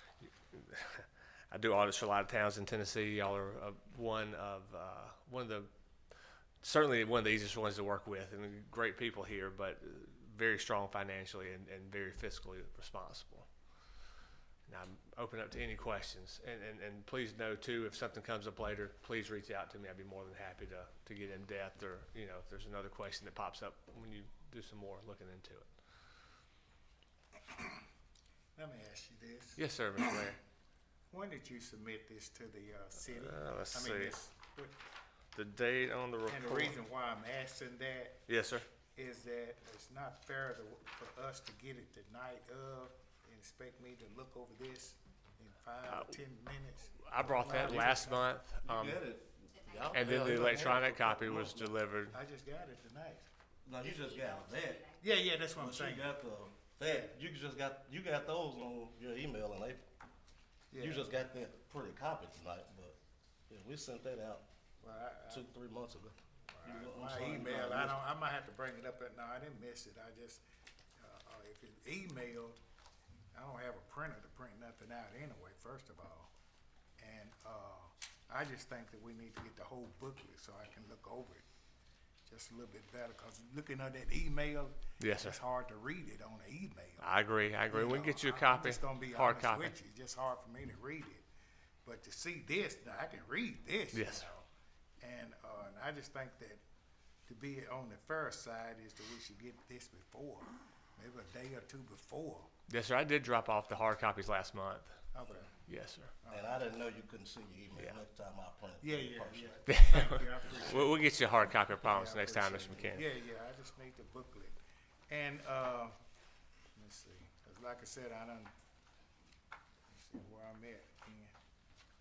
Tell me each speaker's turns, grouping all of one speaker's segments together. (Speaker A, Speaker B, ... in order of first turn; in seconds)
Speaker A: 0.2-5.7, 6.6-13.5, 14.7-25.7, 29.6-30.4, 33.1-34.2, 35.4-36.8, 38.3-38.7, 45.9-46.1, 47.0-49.0, 49.9-52.1, 85.0-85.4, 87.0-89.7, 93.9-94.3, 102.7-105.0, 105.7-106.1, 109.7-113.0
Speaker B: 27.5-27.8, 28.6-30.2, 31.1-34.8, 36.3-38.2, 38.9-48.2, 50.1-50.8, 51.3-51.6, 52.1-53.3, 55.0-56.1, 56.8-57.1, 60.7-61.1, 64.8-65.5, 66.5-70.4, 71.0-72.6, 73.3-76.3, 77.0-81.5, 82.3-87.1, 87.7-91.3, 91.8-94.5, 95.0-96.6, 97.3-102.5, 105.1-105.5, 106.2-106.6, 108.8-111.1, 111.8-114.6, 115.1-116.0, 116.8-118.5, 119.9-121.3
Speaker C: 48.6-51.7, 53.6-54.9, 55.6-59.8, 60.8-63.0, 63.5-64.5, 65.3-68.0, 106.3-109.5